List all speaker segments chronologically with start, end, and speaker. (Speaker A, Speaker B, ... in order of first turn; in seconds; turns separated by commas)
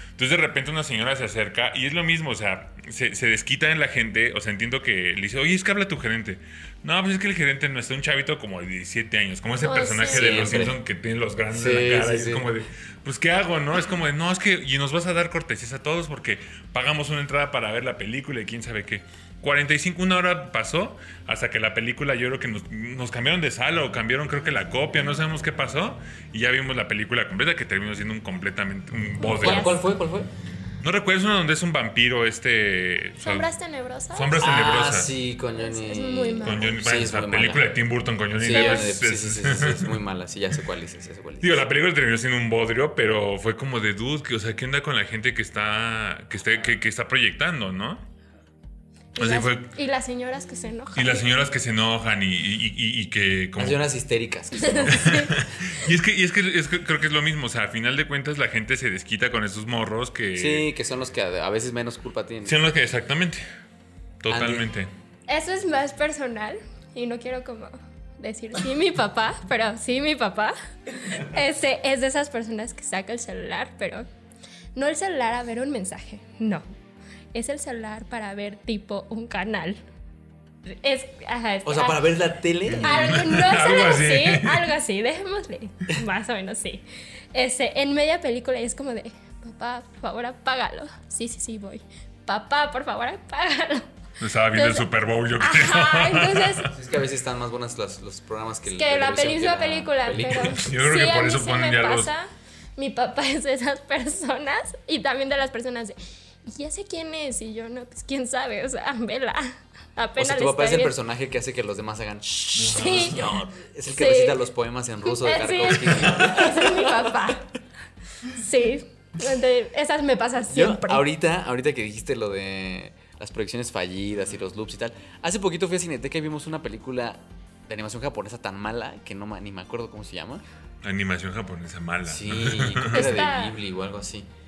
Speaker A: 0.2-29.8, Speaker B: 9.6-10.4, Speaker C: 10.1-10.8, Speaker C: 11.5-12.5, Speaker C: 29.2-30.3, Speaker B: 29.4-29.8, Speaker A: 30.8-33.5, Speaker B: 33.2-34.4, Speaker A: 34.1-35.1, Speaker C: 34.4-37.7, Speaker B: 35.6-36.8, Speaker A: 36.4-40.0, Speaker C: 38.4-41.7, Speaker B: 38.5-39.0, Speaker A: 41.4-48.0, Speaker B: 49.1-51.2, Speaker A: 49.2-49.7, Speaker A: 51.0-53.8, Speaker C: 53.6-55.4, Speaker A: 54.7-60.7, Speaker B: 54.8-55.3, Speaker C: 60.4-62.6, Speaker A: 62.5-63.4, Speaker A: 64.2-64.9, Speaker C: 64.3-64.7, Speaker B: 65.3-74.0, Speaker B: 74.8-76.6, Speaker B: 77.3-79.8, Speaker B: 80.7-82.0, Speaker C: 81.7-83.3, Speaker A: 82.7-84.7, Speaker B: 82.8-93.9, Speaker A: 94.2-96.7, Speaker B: 94.5-94.8, Speaker B: 95.4-96.7, Speaker C: 96.7-100.6, Speaker B: 98.7-110.9, Speaker A: 100.1-102.1, Speaker C: 110.2-117.4, Speaker A: 112.6-113.4, Speaker B: 112.7-113.4, Speaker B: 113.9-114.5, Speaker B: 115.0-117.5, Speaker B: 118.2-121.0, Speaker C: 120.5-130.4, Speaker A: 130.8-133.2, Speaker C: 132.1-134.3, Speaker B: 132.9-133.6